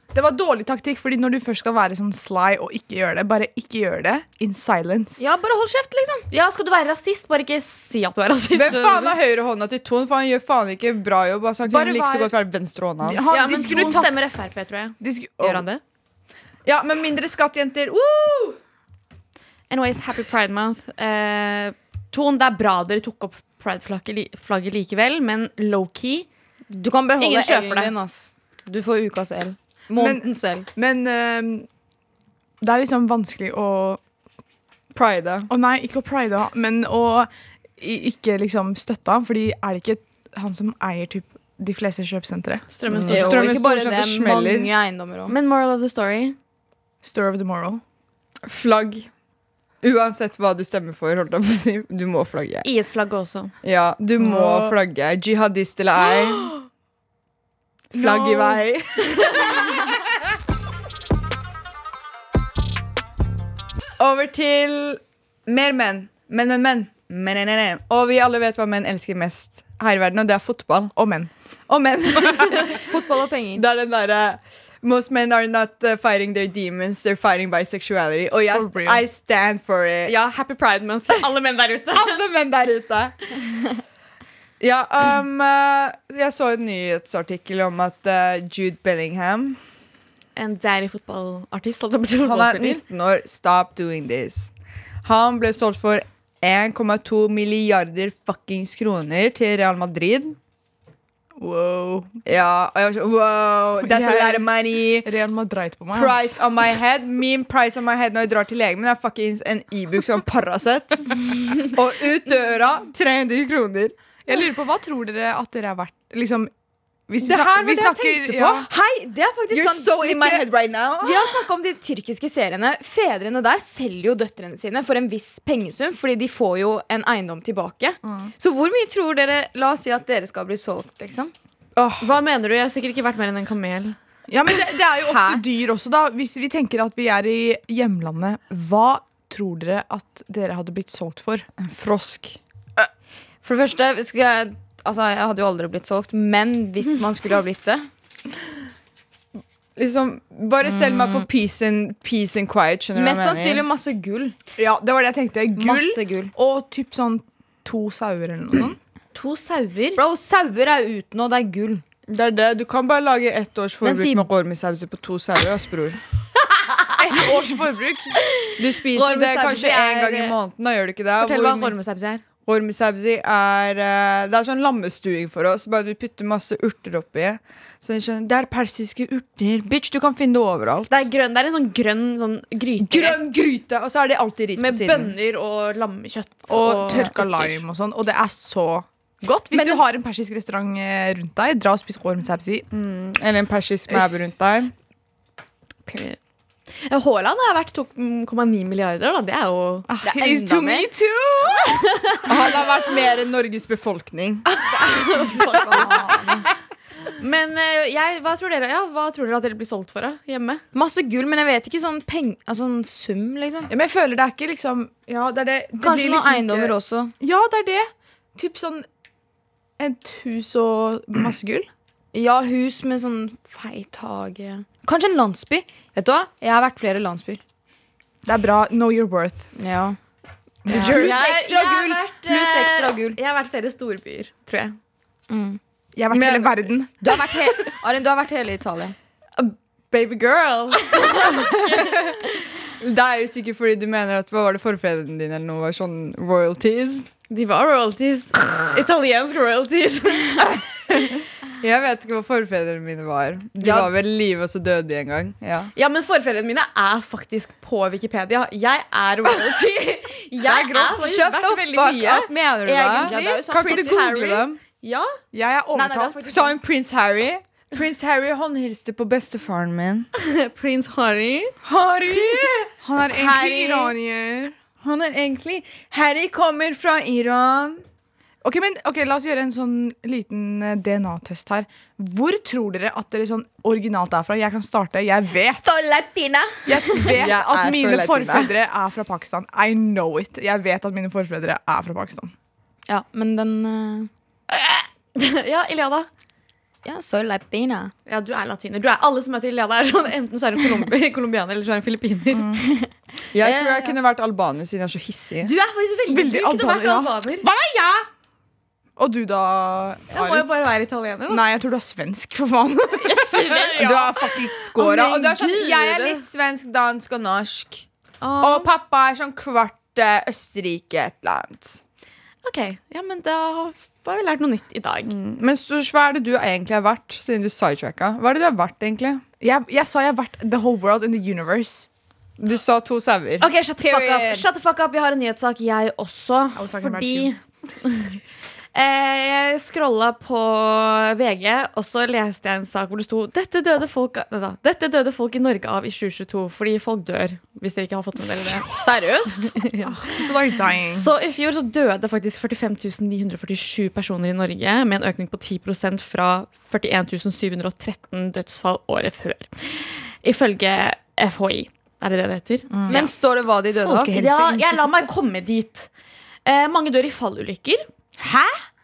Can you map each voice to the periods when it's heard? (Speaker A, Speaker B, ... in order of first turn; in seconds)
Speaker A: 0.1-5.2, 11.6-12.3, 13.0-14.2, 15.0-15.6, 29.9-31.7, 32.6-34.0, 35.5-43.0, 47.0-47.8, 54.2-54.7, 56.0-56.5, 57.9-59.8, 71.0-71.3, 78.5-79.0, 101.4-102.1, 103.8-106.4, 114.2-116.5, 117.1-118.7, 128.0-128.3, 134.3-141.5, 150.7-151.0, 154.6-158.8, 167.0-168.2, 186.5-188.8, 189.4-192.7, 199.9-201.8, 213.7-218.8, 219.8-221.7, 228.2-229.5, 230.7-231.2, 235.9-236.9, 260.4-261.1, 265.3-266.2, 272.1-274.5, 278.4-285.8, 286.6-292.3, 302.3-302.6, 306.1-307.1, 309.0-310.5, 311.3-314.5, 329.4-331.9, 336.6-337.3, 349.8-351.1, 362.7-363.0, 363.7-365.1, 368.2-368.6
Speaker B: 5.2-6.3, 13.3-14.1, 26.7-30.7, 43.1-45.3, 72.8-73.6, 118.7-120.5, 121.0-131.3, 134.9-135.4, 143.4-147.9, 152.9-154.3, 155.6-156.3, 159.9-161.8, 163.8-164.3, 200.0-200.9, 205.6-206.5, 210.7-213.7, 215.8-217.1, 222.1-227.4, 229.6-230.0, 230.6-233.2, 235.3-235.6, 237.0-238.9, 253.6-253.9, 262.9-264.1, 265.7-266.6, 285.8-286.9, 292.9-294.1, 296.8-297.9, 303.4-303.9, 313.1-313.9, 333.8-334.4, 348.7-349.4, 362.9-364.2
Speaker C: 6.3-9.1, 13.3-15.8, 19.7-26.3, 27.2-27.9, 42.7-43.5, 45.3-46.4, 52.6-53.5, 80.0-82.2, 90.3-92.8, 132.0-133.9, 159.1-160.0, 168.9-170.3, 171.2-172.2, 180.9-183.5, 184.6-187.6, 189.2-189.8, 195.8-196.2, 196.8-199.9, 204.7-206.0, 207.2-210.6, 230.8-234.8, 239.4-242.4, 247.3-250.6, 255.7-265.1, 270.2-271.5, 295.1-296.1, 298.1-302.6, 305.4-307.4, 310.1-311.4, 314.8-316.2, 318.2-318.7, 322.4-325.1, 333.4-338.1, 338.7-349.9, 350.9-363.1, 364.1-365.9, 366.4-367.9
Speaker D: 8.5-13.3, 16.6-18.6, 34.9-35.5, 42.9-44.7, 48.5-49.1, 49.8-52.7, 53.6-56.5, 57.9-59.5, 64.0-71.0, 71.7-72.9, 73.5-80.1, 81.9-83.4, 84.6-89.6, 92.2-94.5, 95.0-100.4, 102.2-105.1, 105.9-113.9, 117.2-118.7, 119.5-121.4, 131.8-132.0, 141.6-142.4, 149.8-153.6, 162.1-166.0, 168.6-171.7, 172.4-180.9, 182.8-185.1, 192.7-194.7, 202.2-204.5, 236.1-236.7, 242.8-247.1, 251.6-255.7, 260.7-264.6, 266.3-270.1, 271.6-273.9, 274.8-277.8, 287.1-288.5, 303.3-305.5, 307.4-308.0, 313.8-317.9, 318.4-321.8, 325.1-329.2, 332.4-333.4